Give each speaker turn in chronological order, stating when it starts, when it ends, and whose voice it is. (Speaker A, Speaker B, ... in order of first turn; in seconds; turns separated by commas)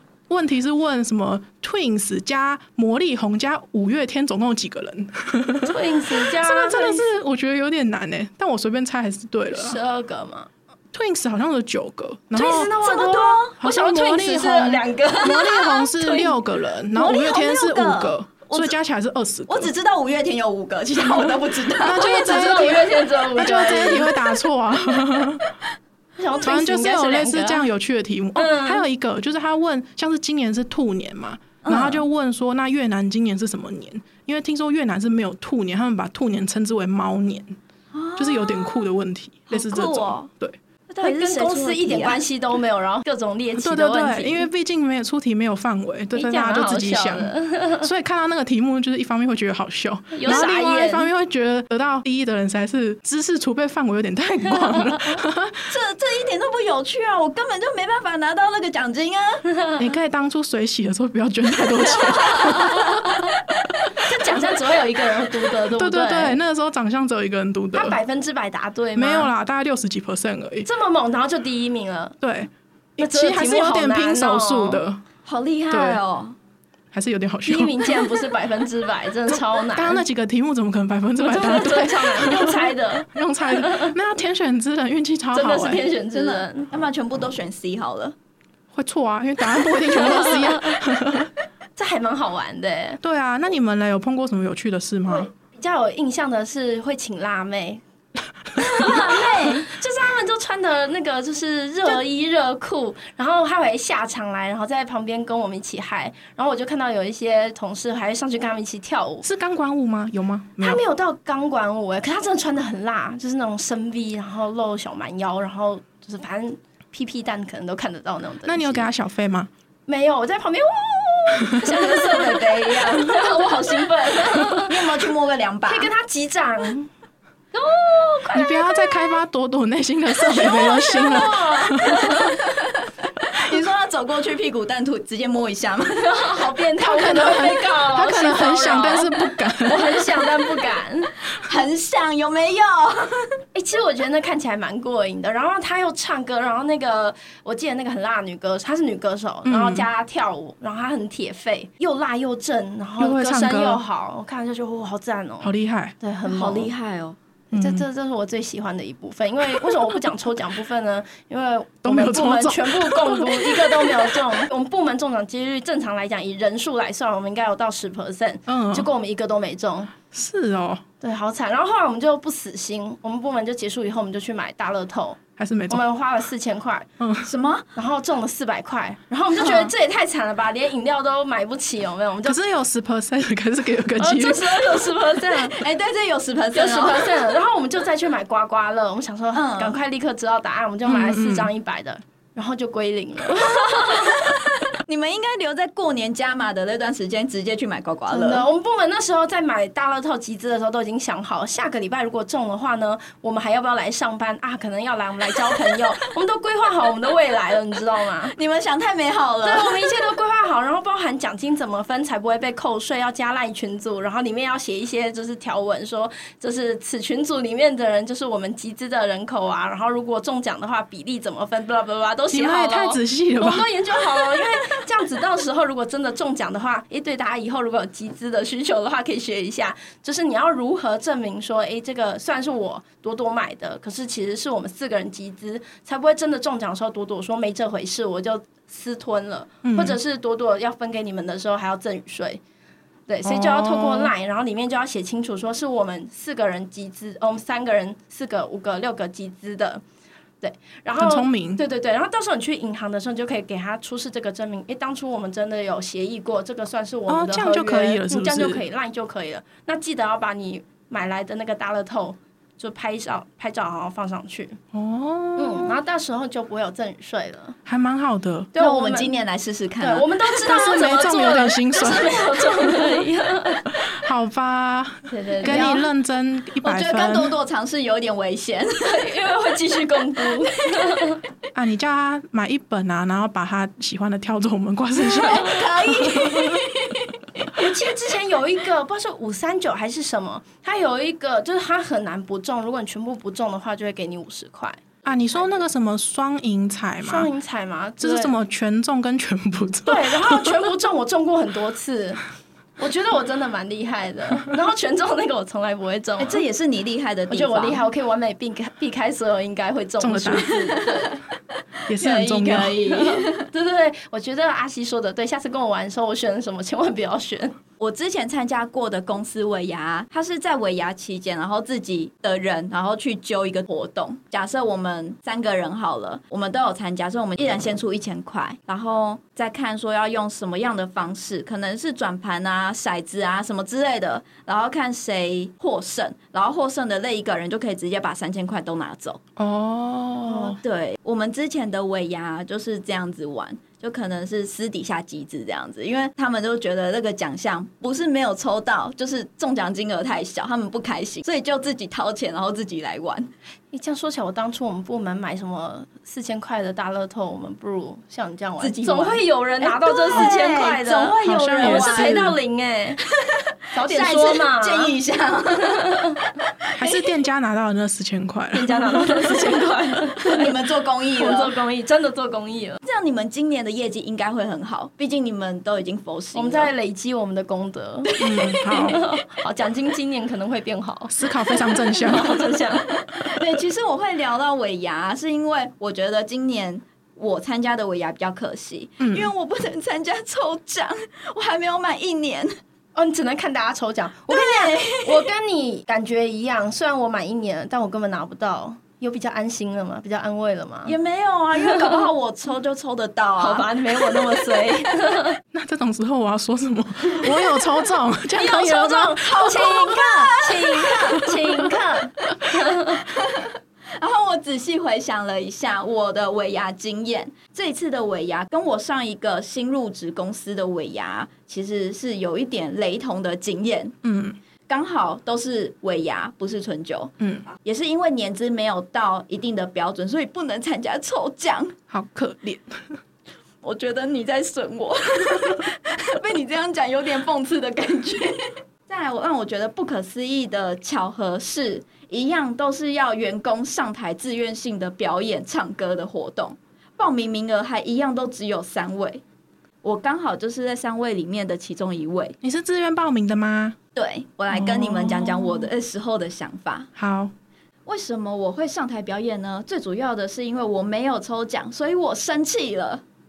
Speaker A: 0.3-9.8, Speaker B: 5.6-7.0, Speaker B: 9.5-10.5, Speaker A: 10.9-12.7, Speaker B: 12.3-16.3, Speaker C: 12.8-13.6, Speaker A: 13.6-19.7, Speaker C: 16.9-18.8, Speaker C: 19.5-22.1, Speaker A: 21.2-25.4, Speaker B: 22.0-24.1, Speaker B: 26.2-27.7, Speaker A: 26.4-37.6, Speaker B: 28.4-28.8, Speaker C: 31.6-32.0, Speaker C: 37.9-38.9, Speaker A: 38.2-40.6, Speaker C: 39.5-40.3, Speaker C: 40.9-42.2, Speaker B: 41.0-44.5, Speaker A: 43.6-55.7, Speaker B: 46.1-47.9, Speaker B: 50.1-51.1, Speaker C: 55.7-59.5, Speaker A: 59.8-63.2, Speaker B: 62.3-63.0, Speaker B: 64.0-66.4, Speaker A: 65.7-68.0, Speaker B: 67.7-69.3, Speaker A: 69.0-70.7, Speaker B: 70.7-72.2, Speaker A: 72.2-75.0, Speaker B: 73.0-74.8, Speaker C: 75.3-76.4, Speaker A: 75.7-76.0, Speaker A: 76.9-77.9, Speaker B: 77.5-80.0, Speaker A: 79.3-85.9, Speaker B: 81.2-83.9, Speaker B: 85.3-86.7, Speaker C: 86.1-88.2, Speaker A: 88.7-91.3, Speaker B: 89.9-90.8, Speaker B: 91.8-93.0, Speaker A: 93.0-95.3, Speaker B: 95.1-97.8, Speaker B: 98.6-109.3, Speaker C: 98.9-99.6, Speaker A: 109.2-110.8, Speaker B: 110.6-118.9, Speaker A: 118.5-119.5, Speaker B: 119.9-124.9, Speaker C: 122.7-125.9, Speaker B: 125.7-126.9, Speaker B: 127.5-129.2, Speaker A: 128.3-132.3, Speaker B: 130.2-132.4, Speaker C: 133.2-136.1, Speaker B: 136.0-141.1, Speaker A: 136.8-140.3, Speaker C: 141.4-143.3, Speaker B: 143.5-156.7, Speaker A: 149.5-149.9, Speaker A: 153.0-153.8, Speaker A: 155.4-155.9, Speaker C: 156.2-157.2, Speaker A: 157.5-157.8, Speaker B: 157.5-169.9, Speaker A: 161.8-164.2, Speaker A: 168.5-168.9, Speaker A: 170.1-170.8, Speaker B: 171.0-176.9, Speaker A: 175.4-175.8, Speaker A: 177.0-177.3, Speaker C: 177.2-177.7, Speaker B: 177.8-182.4, Speaker C: 179.4-179.7, Speaker A: 182.2-184.7, Speaker B: 184.0-185.6, Speaker C: 185.1-187.3, Speaker B: 186.5-194.3, Speaker C: 189.3-189.8, Speaker A: 190.9-191.5, Speaker C: 193.4-198.5, Speaker B: 198.1-208.3, Speaker C: 208.3-210.1, Speaker B: 209.4-242.4, Speaker A: 222.3-223.7, Speaker A: 239.6-240.0, Speaker B: 243.1-249.8, Speaker A: 243.2-244.1, Speaker B: 250.4-264.6, Speaker A: 251.0-251.6, Speaker A: 257.1-258.6, Speaker A: 264.7-265.8, Speaker B: 265.4-267.6, Speaker A: 267.7-268.5, Speaker B: 268.6-269.1, Speaker C: 268.6-270.1, Speaker B: 269.8-273.7, Speaker A: 270.4-272.9, Speaker A: 273.8-277.3, Speaker B: 275.1-275.9, Speaker C: 276.6-279.1, Speaker B: 278.8-281.2, Speaker C: 280.2-280.9, Speaker A: 281.5-286.6, Speaker C: 285.2-287.2, Speaker B: 287.5-294.8, Speaker A: 295.1-297.3, Speaker B: 297.0-298.4, Speaker A: 298.0-300.6, Speaker B: 299.9-302.2, Speaker B: 302.8-306.4, Speaker C: 306.2-307.9, Speaker B: 307.3-311.2, Speaker A: 310.0-310.5, Speaker C: 310.5-311.1, Speaker A: 311.9-312.9, Speaker C: 311.9-313.5, Speaker B: 312.9-317.6, Speaker C: 317.8-339.2, Speaker A: 339.4-340.6, Speaker C: 340.3-353.3, Speaker B: 353.7-363.0, Speaker C: 358.6-362.3, Speaker A: 361.2-362.4, Speaker C: 363.2-366.0, Speaker B: 363.7-364.9, Speaker B: 365.6-366.2, Speaker A: 366.8-369.2, Speaker C: 366.8-367.1, Speaker B: 368.5-370.5, Speaker C: 370.2-371.6, Speaker B: 371.2-372.8, Speaker C: 372.8-376.7, Speaker B: 376.3-382.9, Speaker A: 378.2-379.0, Speaker C: 378.2-378.5, Speaker A: 381.1-382.6, Speaker C: 383.0-392.5, Speaker A: 389.0-389.3, Speaker B: 392.9-401.0, Speaker C: 394.3-395.2, Speaker C: 400.9-404.2, Speaker B: 401.6-402.1, Speaker B: 403.4-405.4, Speaker A: 405.5-409.4, Speaker B: 408.3-413.0, Speaker C: 409.3-411.4, Speaker C: 413.0-423.9, Speaker A: 424.0-424.4, Speaker C: 424.7-431.8, Speaker A: 431.9-433.0, Speaker C: 433.6-449.2, Speaker C: 449.8-452.4, Speaker A: 452.4-453.8, Speaker C: 453.9-456.9, Speaker A: 454.5-455.7, Speaker A: 457.0-457.3, Speaker C: 457.9-463.0